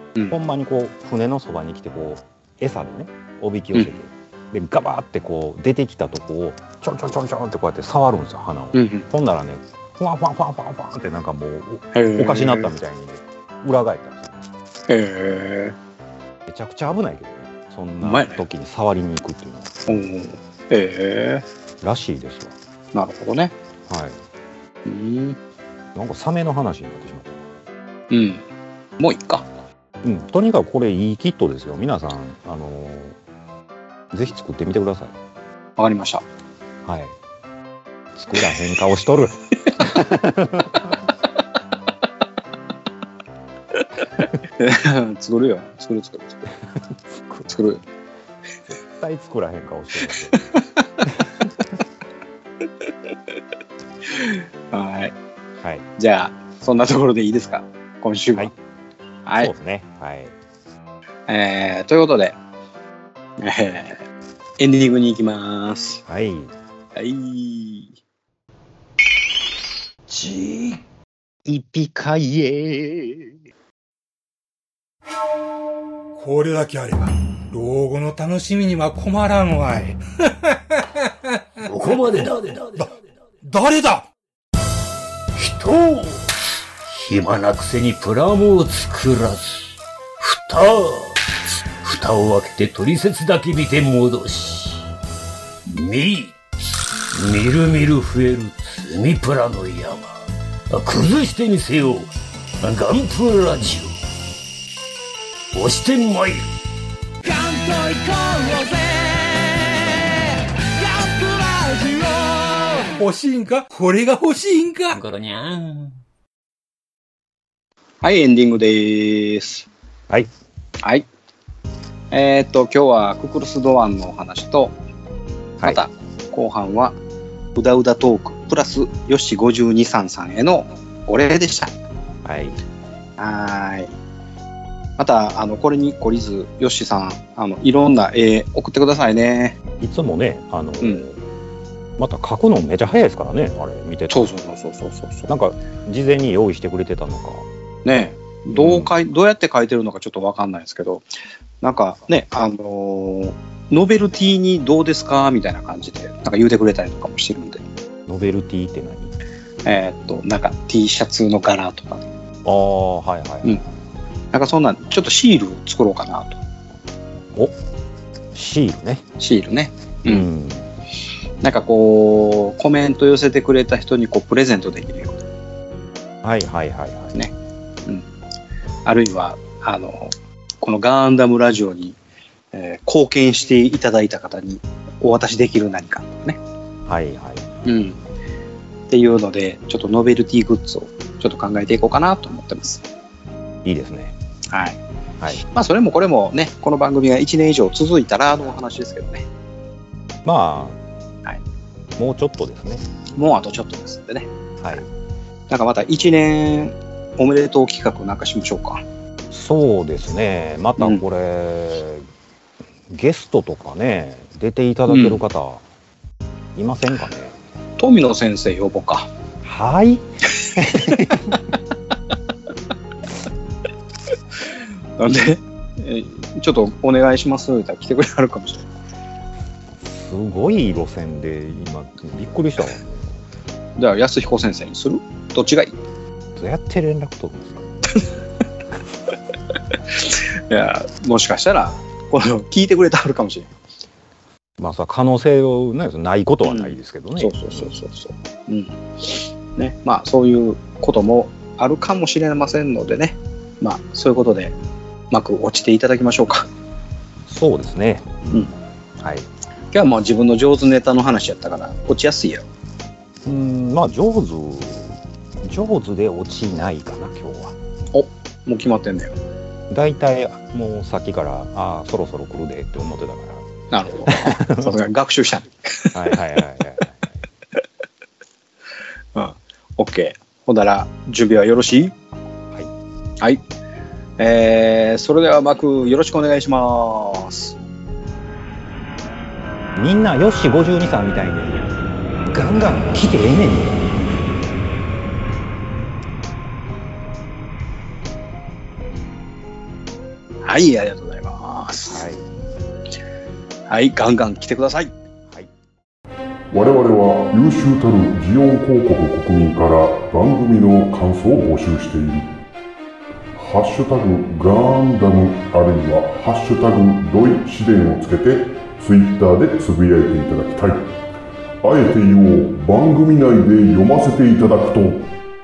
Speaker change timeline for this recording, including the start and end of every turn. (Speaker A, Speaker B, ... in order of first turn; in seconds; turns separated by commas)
Speaker A: 0.3-14.5, Speaker B: 3.7-4.0, Speaker B: 8.7-9.1, Speaker B: 11.9-12.7, Speaker B: 14.9-15.8, Speaker A: 16.5-20.0, Speaker B: 18.0-18.4, Speaker B: 19.9-21.4, Speaker A: 21.8-22.6, Speaker B: 22.9-23.5, Speaker A: 23.9-24.2, Speaker B: 24.9-25.4, Speaker A: 25.9-27.4, Speaker B: 28.1-28.4, Speaker B: 29.0-29.5, Speaker A: 30.0-33.2, Speaker A: 34.1-35.2, Speaker B: 35.8-36.2, Speaker A: 36.8-37.1, Speaker A: 38.1-41.0, Speaker B: 44.2-46.5, Speaker A: 46.9-47.5, Speaker B: 47.5-47.8, Speaker A: 48.7-50.4, Speaker B: 50.1-50.6, Speaker A: 51.2-51.8, Speaker B: 54.1-55.1, Speaker B: 56.0-58.5, Speaker B: 59.3-59.5, Speaker A: 59.4-60.4, Speaker B: 61.3-62.4, Speaker B: 63.4-64.0, Speaker B: 64.6-66.0, Speaker A: 66.1-66.5, Speaker B: 67.0-68.0, Speaker C: 70.1-70.8, Speaker D: 76.2-81.3, Speaker C: 81.7-83.0, Speaker D: 83.4-84.1, Speaker C: 85.3-86.3, Speaker C: 86.9-91.3, Speaker C: 91.8-94.8, Speaker C: 95.7-96.4, Speaker C: 97.1-104.0, Speaker C: 105.5-106.5, Speaker C: 107.2-112.9, Speaker D: 113.0-115.0, Speaker C: 114.9-116.0, Speaker B: 118.0-119.7, Speaker B: 122.1-124.8, Speaker A: 125.6-125.8, Speaker B: 125.6-127.0, Speaker B: 127.5-131.7, Speaker A: 132.2-132.6, Speaker B: 133.2-133.9, Speaker B: 135.0-139.6, Speaker A: 139.8-141.2, Speaker A: 142.0-144.3, Speaker B: 144.1-145.3, Speaker A: 145.3-147.5, Speaker B: 147.8-151.1, Speaker A: 148.5-148.9, Speaker B: 151.6-157.6, Speaker A: 158.1-159.1, Speaker B: 159.7-162.1, Speaker A: 162.4-163.6, Speaker B: 164.3-166.4, Speaker A: 168.3-169.1, Speaker B: 169.2-170.3, Speaker A: 170.1-170.7, Speaker B: 171.4-175.2, Speaker A: 176.2-177.2, Speaker B: 178.8-182.0, Speaker B: 182.5-186.4, Speaker A: 186.9-187.5, Speaker B: 187.7-188.0, Speaker B: 188.9-192.8, Speaker A: 193.6-194.1, Speaker B: 194.5-194.8, Speaker B: 195.3-199.3, Speaker A: 200.2-200.8, Speaker A: 202.0-203.1, Speaker B: 203.2-204.3, Speaker A: 204.6-204.9, Speaker B: 205.5-208.8, Speaker A: 209.3-212.1, Speaker B: 210.8-211.0, Speaker A: 212.9-215.6, Speaker B: 214.9-215.2, Speaker A: 216.6-217.4, Speaker B: 217.8-219.1, Speaker A: 219.4-221.4, Speaker B: 220.8-221.1, Speaker B: 225.0-228.7, Speaker A: 229.8-233.1, Speaker B: 233.8-235.8, Speaker A: 236.4-237.7, Speaker B: 239.9-243.5, Speaker A: 244.6-247.7, Speaker B: 246.4-254.6, Speaker B: 255.1-256.5, Speaker A: 257.3-259.3, Speaker B: 259.7-262.4, Speaker A: 263.2-267.6, Speaker B: 267.9-269.1, Speaker A: 269.7-273.5, Speaker B: 273.7-276.2, Speaker A: 274.0-274.8, Speaker A: 275.9-277.1, Speaker B: 279.1-281.9, Speaker B: 284.2-287.6, Speaker A: 289.8-291.7, Speaker A: 292.3-293.9, Speaker B: 300.4-302.1, Speaker A: 301.9-302.3, Speaker B: 303.7-304.9, Speaker E: 306.5-312.3, Speaker E: 313.4-320.9, Speaker E: 321.6-325.1